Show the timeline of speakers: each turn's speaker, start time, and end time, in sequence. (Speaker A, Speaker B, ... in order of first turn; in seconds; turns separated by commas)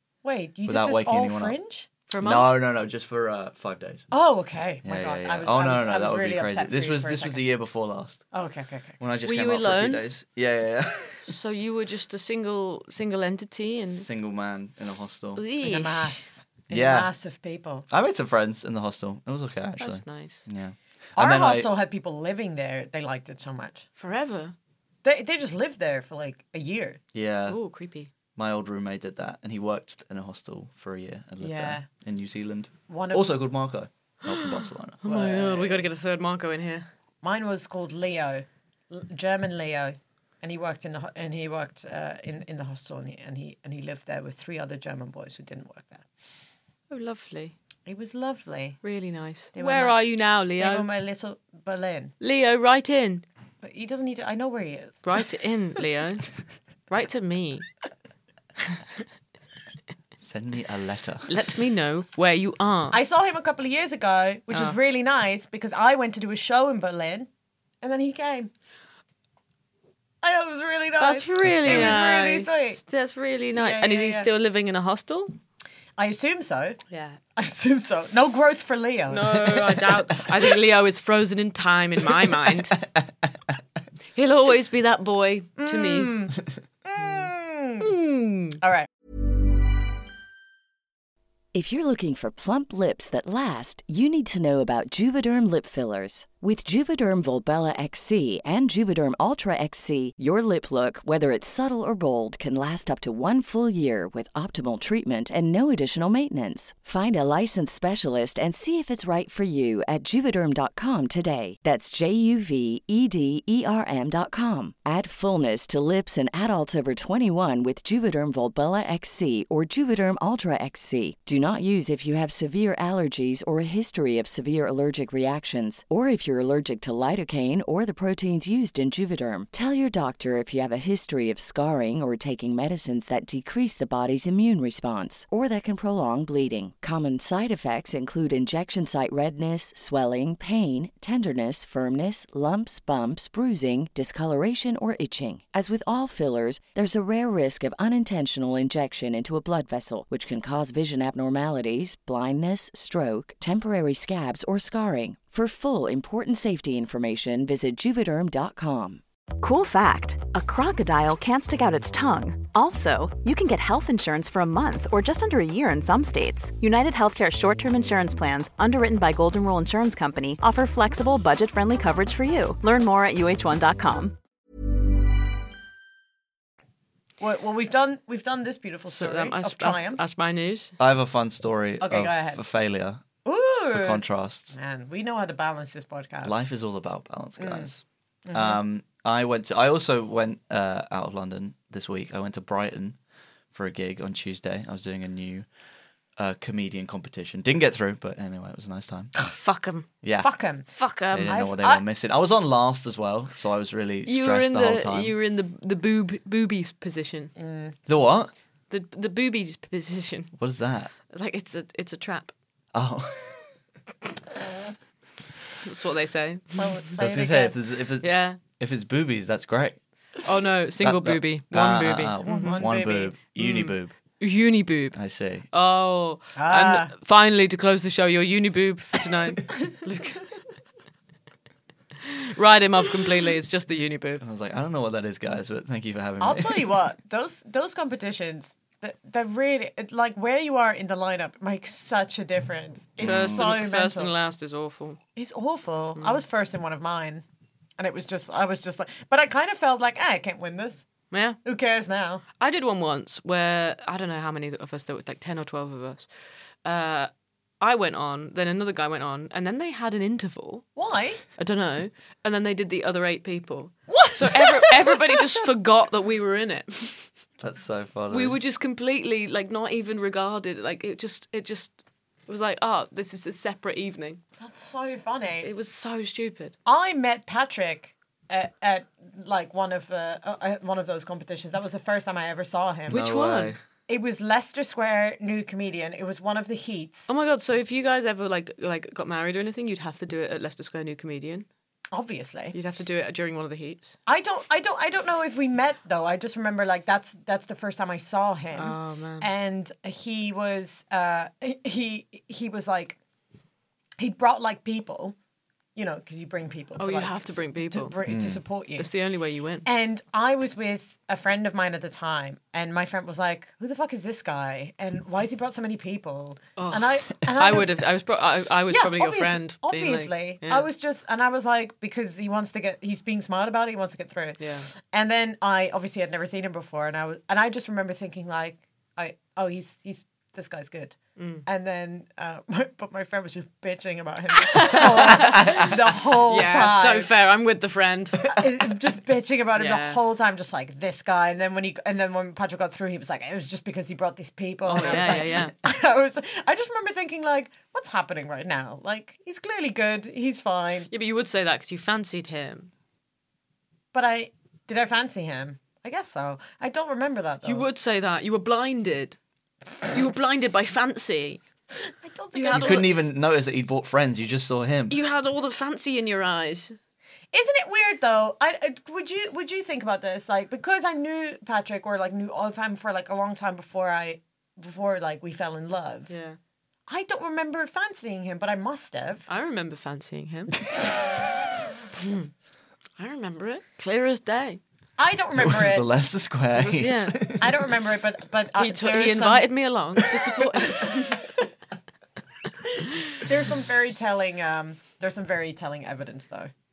Speaker A: 0.2-1.9, Speaker B: 0.7-1.6, Speaker C: 2.1-2.5, Speaker B: 2.2-4.1, Speaker A: 4.1-7.4, Speaker B: 4.8-8.3, Speaker A: 8.3-8.9, Speaker B: 9.0-11.3, Speaker C: 9.2-10.0, Speaker C: 11.3-14.1, Speaker B: 13.9-15.4, Speaker C: 15.4-16.2, Speaker A: 15.6-17.9, Speaker B: 16.7-17.1, Speaker B: 17.9-21.7, Speaker C: 19.8-20.4, Speaker A: 21.2-23.9, Speaker C: 24.0-24.6, Speaker A: 25.0-27.0, Speaker B: 27.1-27.6, Speaker C: 27.5-28.1, Speaker B: 28.4-35.0, Speaker A: 31.4-31.9, Speaker A: 32.9-33.2, Speaker C: 35.0-36.9, Speaker A: 35.1-35.9, Speaker A: 37.2-46.0, Speaker C: 46.9-47.5, Speaker A: 47.9-48.8, Speaker C: 48.8-50.9, Speaker A: 49.5-52.1, Speaker C: 52.2-53.2, Speaker A: 53.6-55.0, Speaker C: 55.0-56.3, Speaker C: 56.9-57.7, Speaker B: 60.2-61.3, Speaker C: 61.3-63.0, Speaker A: 62.9-67.3, Speaker C: 64.5-64.8, Speaker A: 67.8-68.5, Speaker A: 70.2-72.8, Speaker C: 71.0-75.3, Speaker B: 71.5-72.0, Speaker A: 73.6-74.3, Speaker A: 76.0-76.8, Speaker C: 76.9-77.2, Speaker A: 77.4-79.9, Speaker C: 79.1-82.8, Speaker C: 84.1-86.1, Speaker A: 85.6-87.8, Speaker C: 87.8-88.6, Speaker A: 88.6-88.9, Speaker D: 91.5-159.0, Speaker E: 159.4-174.2, Speaker A: 177.2-180.0, Speaker C: 178.9-180.7, Speaker B: 180.8-183.0, Speaker A: 181.8-182.4, Speaker A: 183.2-186.4, Speaker B: 183.6-184.6, Speaker B: 186.2-193.0, Speaker A: 187.4-187.7, Speaker A: 188.3-188.6, Speaker B: 193.5-195.5, Speaker B: 196.2-199.2, Speaker C: 199.3-199.9, Speaker B: 200.0-200.4, Speaker A: 200.2-200.7, Speaker C: 200.7-201.4, Speaker B: 201.1-205.1, Speaker A: 201.3-201.8, Speaker C: 204.1-207.3, Speaker A: 207.4-207.8, Speaker B: 207.9-208.3, Speaker C: 208.7-210.3, Speaker B: 210.4-210.9, Speaker C: 211.1-212.3, Speaker B: 212.7-213.5, Speaker C: 215.6-216.9, Speaker A: 216.6-217.6, Speaker B: 217.0-219.8, Speaker C: 218.0-218.4, Speaker C: 220.2-222.6, Speaker B: 220.8-223.9, Speaker A: 222.2-223.1, Speaker C: 223.4-225.0, Speaker B: 224.9-225.5, Speaker C: 225.5-230.2, Speaker A: 226.4-226.9, Speaker C: 232.1-234.2, Speaker B: 234.2-236.8, Speaker A: 236.2-244.1, Speaker B: 243.0-243.4, Speaker C: 243.0-245.0, Speaker A: 245.2-247.2, Speaker A: 247.8-250.8, Speaker C: 251.1-251.4, Speaker A: 251.4-252.2, Speaker C: 252.4-256.1, Speaker C: 256.6-257.1, Speaker C: 257.6-260.7, Speaker A: 260.8-261.2, Speaker C: 261.4-267.1, Speaker A: 263.9-264.8, Speaker B: 267.4-268.4, Speaker C: 268.1-274.2, Speaker A: 274.4-275.5, Speaker C: 275.4-276.6, Speaker A: 276.7-283.0, Speaker C: 282.9-283.6, Speaker B: 282.9-283.6, Speaker A: 283.9-287.1, Speaker C: 287.1-291.5, Speaker A: 291.9-292.6, Speaker C: 292.5-294.0, Speaker A: 294.1-303.0, Speaker C: 298.6-299.3, Speaker A: 304.0-305.2, Speaker A: 305.8-308.9, Speaker C: 306.8-308.0, Speaker B: 308.1-308.4, Speaker C: 308.8-309.7, Speaker A: 309.6-317.9, Speaker C: 316.6-320.7, Speaker A: 318.7-337.1, Speaker C: 324.4-324.7, Speaker C: 331.2-331.5, Speaker C: 334.4-335.7, Speaker C: 336.3-338.3, Speaker A: 338.3-350.9, Speaker C: 339.6-340.0, Speaker C: 344.6-345.6, Speaker C: 350.9-352.7, Speaker A: 353.9-357.7, Speaker C: 357.4-359.2, Speaker C: 359.9-361.4, Speaker A: 362.0-362.9, Speaker C: 362.3-362.9, Speaker B: 362.5-365.0, Speaker C: 364.9-366.8, Speaker A: 367.3-376.1, Speaker C: 376.1-376.4, Speaker A: 376.9-379.3, Speaker C: 379.3-380.5, Speaker C: 382.0-382.3, Speaker C: 383.0-384.6, Speaker A: 385.0-385.9, Speaker B: 385.4-387.5, Speaker C: 386.6-387.4, Speaker A: 387.4-389.5, Speaker C: 388.6-391.3, Speaker A: 393.2-396.5